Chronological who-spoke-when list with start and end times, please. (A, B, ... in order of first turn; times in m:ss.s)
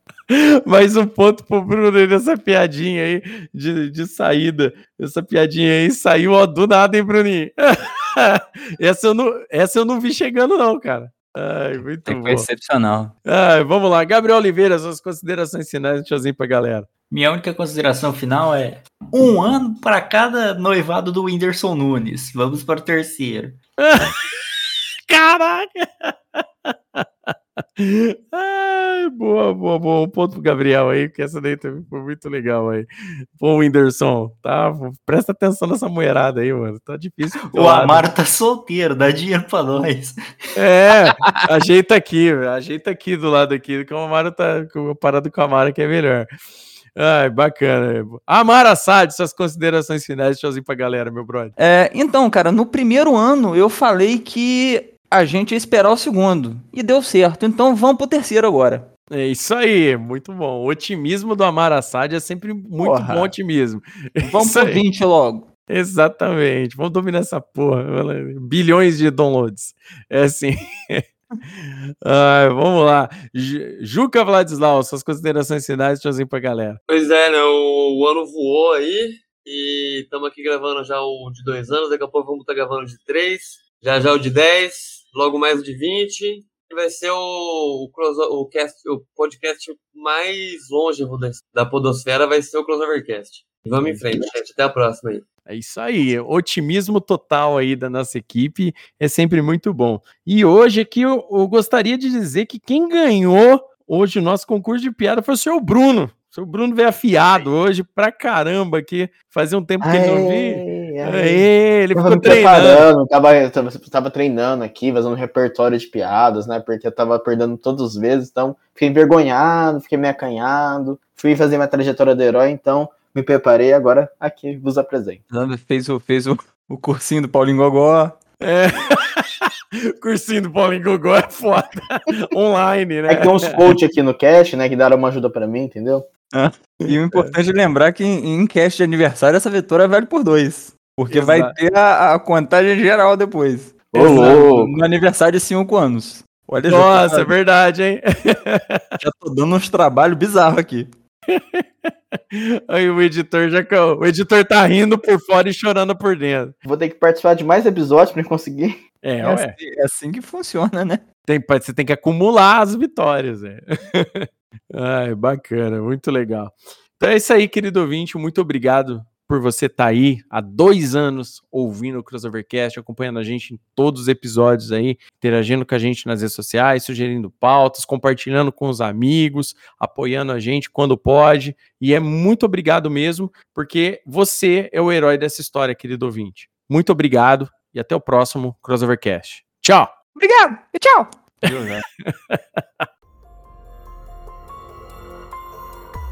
0:00.3-0:12.5 A
0:12.0-0:13.1 B
0:13.2-0:16.9 A
0:17.1-0:23.6 C
0:23.8-0:24.2 A
0:25.1-0:38.1 A
0:37.5-0:40.2 C
0:40.6-0:46.3 A
0:47.0-0:51.5 A
0:51.6-0:58.9 B
0:59.1-1:04.8 A
1:02.8-1:03.3 B
1:04.2-1:05.5 B
1:05.7-1:16.8 A
1:16.9-1:35.2 D
1:35.5-1:52.9 A
1:49.8-2:05.2 E
2:05.3-2:08.2 B
2:08.4-2:13.7 A
2:13.1-2:16.1 E
2:16.3-2:27.3 B
2:21.1-2:21.5 A
2:23.9-2:24.7 E
2:26.7-2:29.0 A
2:29.0-2:30.9 B
2:31.3-2:36.5 A
2:36.6-2:38.8 E
2:39.0-2:39.5 A
2:39.2-2:41.0 B
2:41.3-3:09.9 A
3:10.2-3:11.8 B
3:11.4-3:12.8 A